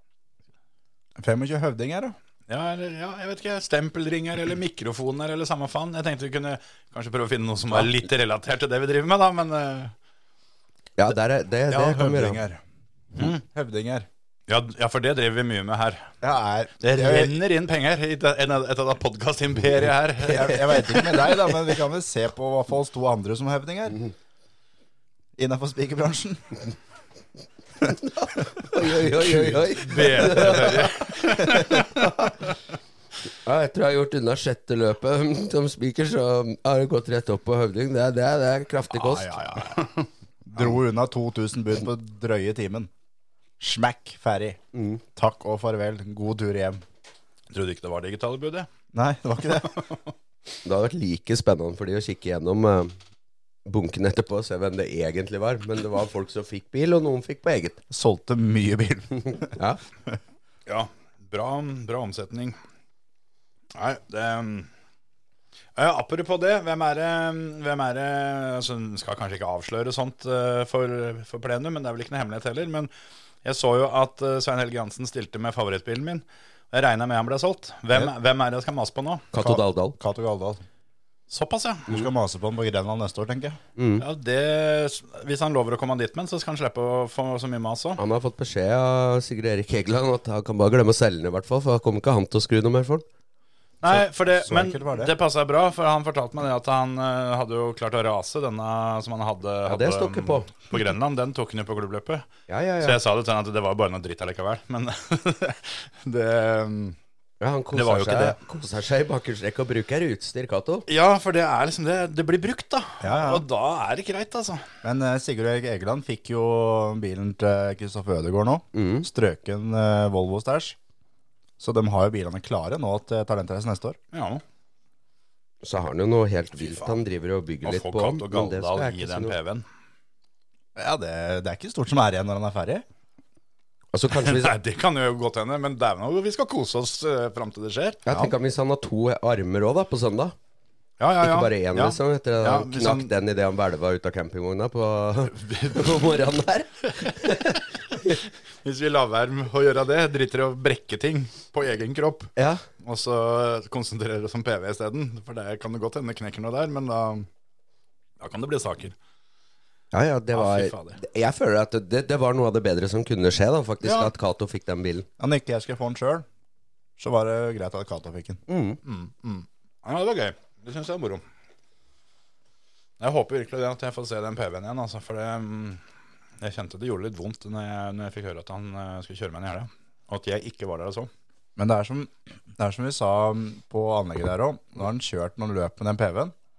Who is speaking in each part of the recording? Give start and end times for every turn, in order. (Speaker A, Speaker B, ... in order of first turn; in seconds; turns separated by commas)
Speaker A: 1.2-2.1, Speaker B: 2.5-9.9, Speaker C: 11.0-12.4, Speaker A: 11.7-12.6, Speaker B: 13.2-13.4, Speaker A: 13.2-14.1, Speaker B: 14.5-16.1, Speaker A: 16.2-17.4, Speaker B: 16.8-21.0, Speaker A: 20.2-24.0, Speaker C: 20.3-21.5, Speaker A: 25.4-26.6, Speaker A: 27.8-29.6, Speaker C: 28.1-30.9, Speaker B: 29.8-32.2, Speaker A: 31.4-32.2, Speaker C: 33.4-39.4, Speaker B: 38.9-40.1, Speaker A: 40.5-42.9, Speaker A: 43.6-44.6, Speaker C: 44.7-45.0, Speaker A: 45.1-46.8, Speaker B: 47.5-48.7, Speaker A: 48.9-49.8, Speaker C: 50.6-53.0, Speaker C: 53.6-57.8, Speaker A: 57.9-59.5, Speaker C: 59.5-59.8, Speaker B: 60.7-62.6, Speaker B: 63.7-64.7, Speaker B: 65.8-72.9, Speaker B: 73.4-79.3, Speaker C: 79.3-80.0, Speaker A: 79.4-80.6, Speaker B: 81.3-81.9, Speaker A: 81.9-83.6, Speaker C: 83.8-84.0, Speaker B: 84.0-88.0, Speaker C: 88.0-93.0, Speaker B: 93.8-102.3, Speaker A: 93.9-95.1, Speaker C: 99.7-100.5, Speaker C: 102.5-103.0, Speaker B: 102.8-107.0, Speaker C: 107.4-110.9, Speaker B: 107.7-108.4, Speaker B: 110.9-114.7, Speaker A: 113.0-113.5, Speaker A: 114.8-120.8, Speaker C: 118.7-119.1, Speaker A: 121.6-124.0, Speaker B: 124.1-124.4, Speaker C: 125.6-129.3, Speaker B: 126.6-127.0, Speaker B: 127.6-129.7, Speaker A: 130.8-132.8, Speaker C: 133.9-134.6, Speaker B: 134.1-138.3, Speaker C: 138.1-140.3, Speaker B: 141.0-143.1, Speaker C: 141.2-148.2, Speaker B: 145.3-146.2, Speaker B: 146.9-148.1, Speaker B: 148.6-157.3, Speaker C: 152.3-152.6, Speaker B: 158.2-158.9, Speaker C: 159.9-165.1, Speaker B: 160.3-161.0, Speaker B: 163.8-164.1, Speaker A: 165.2-166.2, Speaker A: 167.0-168.4, Speaker C: 168.5-168.8, Speaker B: 168.8-171.2, Speaker B: 173.0-175.8, Speaker B: 176.4-181.1, Speaker A: 181.6-186.3